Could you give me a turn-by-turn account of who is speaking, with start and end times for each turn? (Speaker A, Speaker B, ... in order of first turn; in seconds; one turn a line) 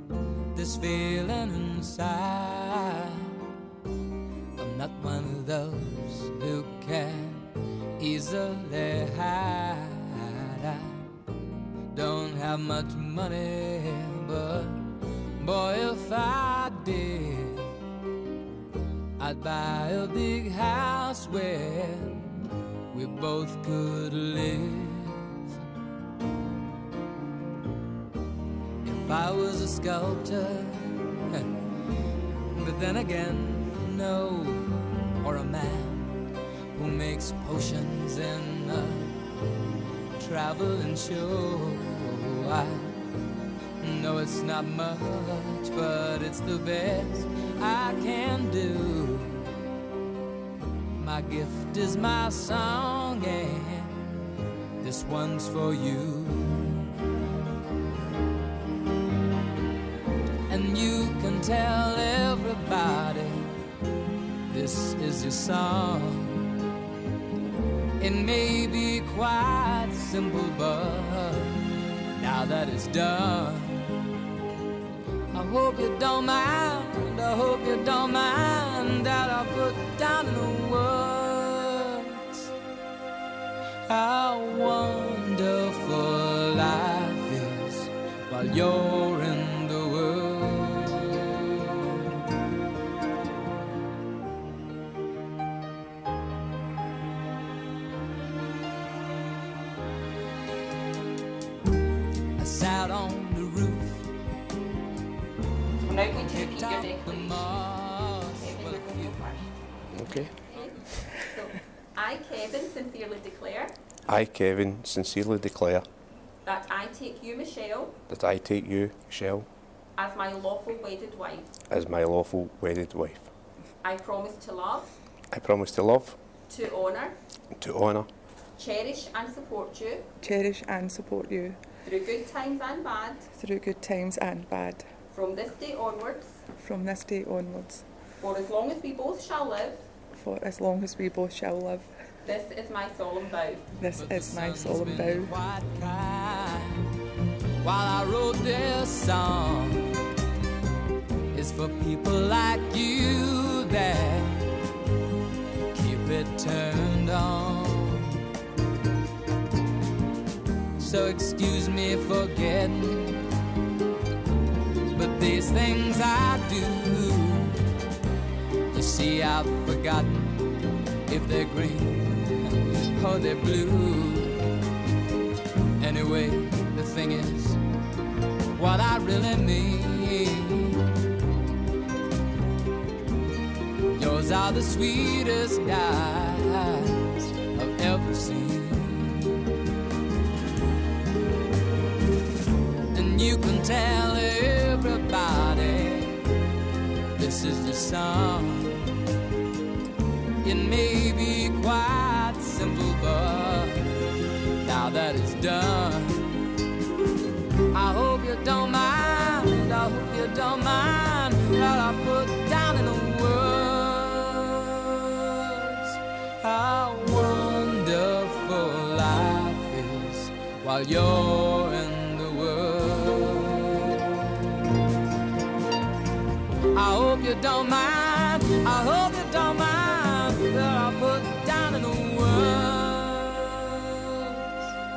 Speaker A: 0.5-3.5
Speaker A: 4.5-11.2
Speaker A: 11.9-17.9
Speaker A: 19.2-25.5
Speaker A: 28.8-39.3
Speaker A: 40.2-43.0
Speaker A: 43.8-49.5
Speaker A: 51.0-54.2
Speaker A: 54.8-56.9
Speaker A: 60.5-63.5
Speaker A: 64.5-66.5
Speaker A: 68.0-74.0
Speaker A: 75.3-82.5
Speaker A: 83.8-92.2
Speaker A: 102.3-104.1
Speaker B: 105.8-107.4
Speaker A: 106.1-109.3
Speaker B: 108.4-109.5
Speaker C: 109.9-110.4
Speaker B: 110.5-113.7
Speaker C: 114.1-115.8
Speaker B: 116.4-118.0
Speaker C: 118.1-119.5
Speaker B: 120.0-121.5
Speaker C: 121.7-123.3
Speaker B: 123.8-124.9
Speaker C: 125.3-126.2
Speaker B: 126.5-127.2
Speaker C: 127.5-128.1
Speaker B: 128.6-130.1
Speaker D: 130.2-131.6
Speaker B: 131.8-133.3
Speaker D: 133.3-135.0
Speaker B: 135.1-136.4
Speaker D: 136.5-137.8
Speaker B: 138.2-139.9
Speaker D: 140.1-142.0
Speaker B: 142.2-143.7
Speaker D: 143.8-145.3
Speaker A: 143.9-146.9
Speaker A: 147.6-150.0
Speaker A: 151.3-154.5
Speaker A: 155.7-158.2
Speaker A: 160.8-163.2
Speaker A: 164.8-167.6
Speaker A: 168.7-174.5
Speaker A: 175.8-177.6
Speaker A: 178.5-180.9
Speaker A: 183.9-189.5
Speaker A: 192.9-196.2
Speaker A: 197.1-199.0
Speaker A: 200.4-206.3
Speaker A: 207.7-224.5
Speaker A: 226.7-234.7